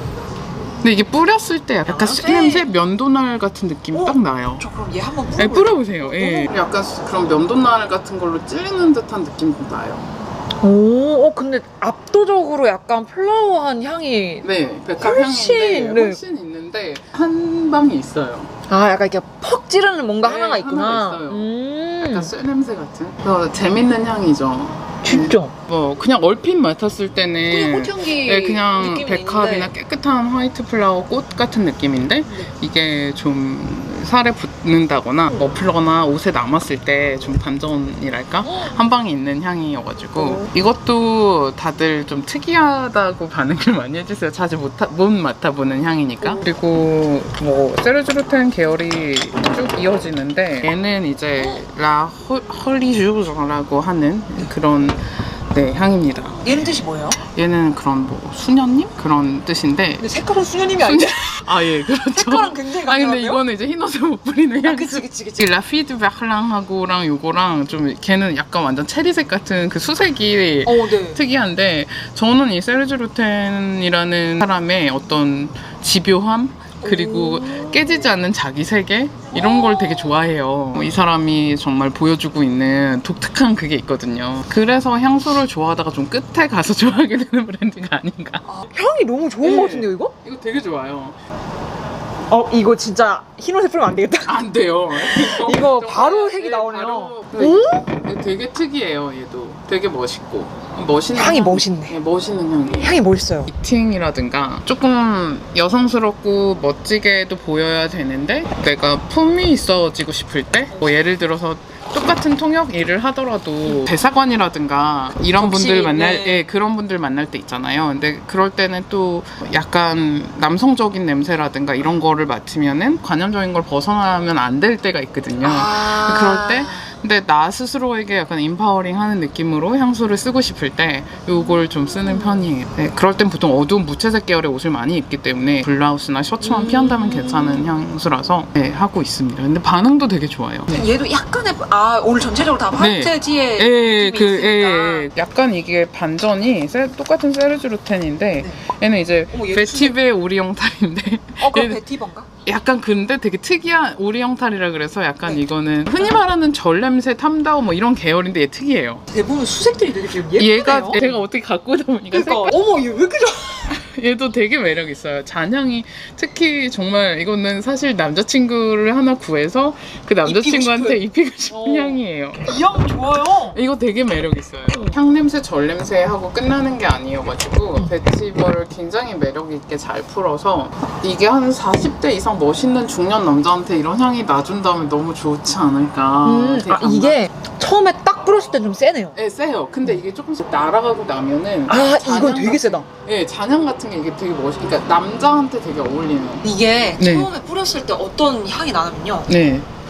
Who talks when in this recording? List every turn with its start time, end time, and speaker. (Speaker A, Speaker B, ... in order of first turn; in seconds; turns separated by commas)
Speaker A: 0.8-4.7, Speaker B: 1.9-2.7, Speaker B: 3.9-6.5, Speaker A: 5.4-10.1, Speaker B: 10.6-14.5, Speaker A: 14.4-18.5, Speaker B: 15.0-16.2, Speaker B: 18.7-22.3, Speaker A: 20.2-21.5, Speaker A: 22.0-56.7, Speaker B: 25.0-25.5, Speaker B: 27.5-29.7, Speaker B: 38.4-38.8, Speaker B: 40.2-40.5, Speaker B: 56.4-57.2, Speaker A: 57.2-60.1, Speaker B: 60.0-63.4, Speaker A: 60.8-88.5, Speaker B: 64.6-65.5, Speaker B: 70.7-71.2, Speaker B: 76.8-78.1, Speaker B: 79.3-80.1, Speaker B: 88.5-90.1, Speaker A: 89.4-91.2, Speaker B: 92.3-94.4, Speaker A: 94.2-102.9, Speaker B: 95.0-97.9, Speaker B: 101.1-102.0, Speaker B: 102.8-103.5, Speaker A: 103.5-140.8, Speaker B: 113.7-113.9, Speaker B: 115.4-116.5, Speaker B: 125.4-126.9, Speaker B: 131.9-132.5, Speaker B: 136.4-137.7, Speaker B: 140.7-145.1, Speaker A: 142.8-151.8, Speaker B: 148.4-148.6, Speaker B: 149.3-150.0, Speaker B: 151.4-152.3, Speaker A: 152.4-159.0, Speaker B: 159.1-161.1, Speaker A: 160.3-162.6, Speaker B: 162.1-163.7, Speaker A: 163.7-172.5, Speaker B: 170.2-173.6, Speaker A: 173.5-187.2, Speaker B: 174.7-175.0, Speaker B: 186.2-189.2, Speaker A: 189.2-196.5, Speaker B: 191.7-192.9, Speaker B: 196.4-199.3, Speaker A: 197.0-197.3, Speaker A: 199.3-199.7